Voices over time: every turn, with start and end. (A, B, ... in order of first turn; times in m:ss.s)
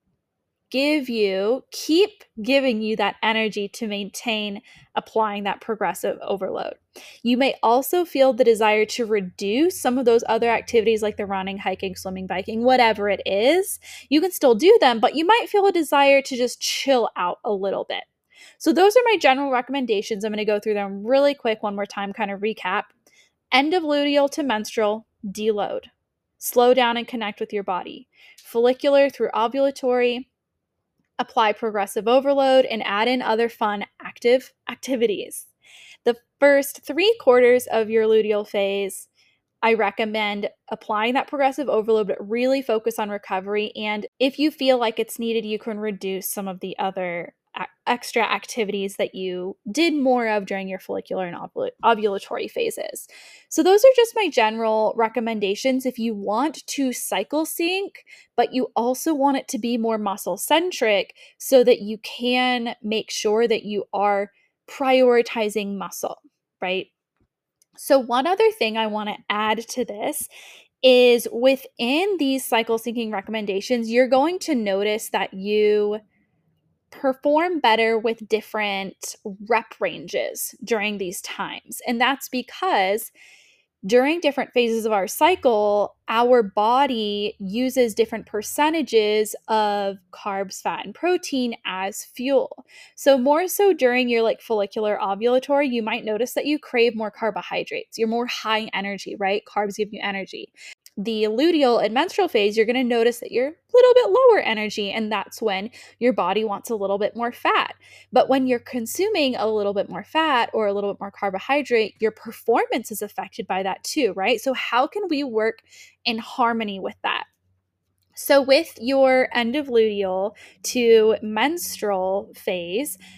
0:00.7-0:18.1 A
0:18.6-0:22.9 A
0:23.5-0:30.3 A
0:31.2-0:35.5 A
0:36.0-0:39.1 A
0:39.6-1:06.9 A
1:07.8-1:10.3 A
1:10.8-1:16.0 A
1:16.9-1:23.1 A
1:23.8-1:57.3 A
1:58.2-2:03.0 A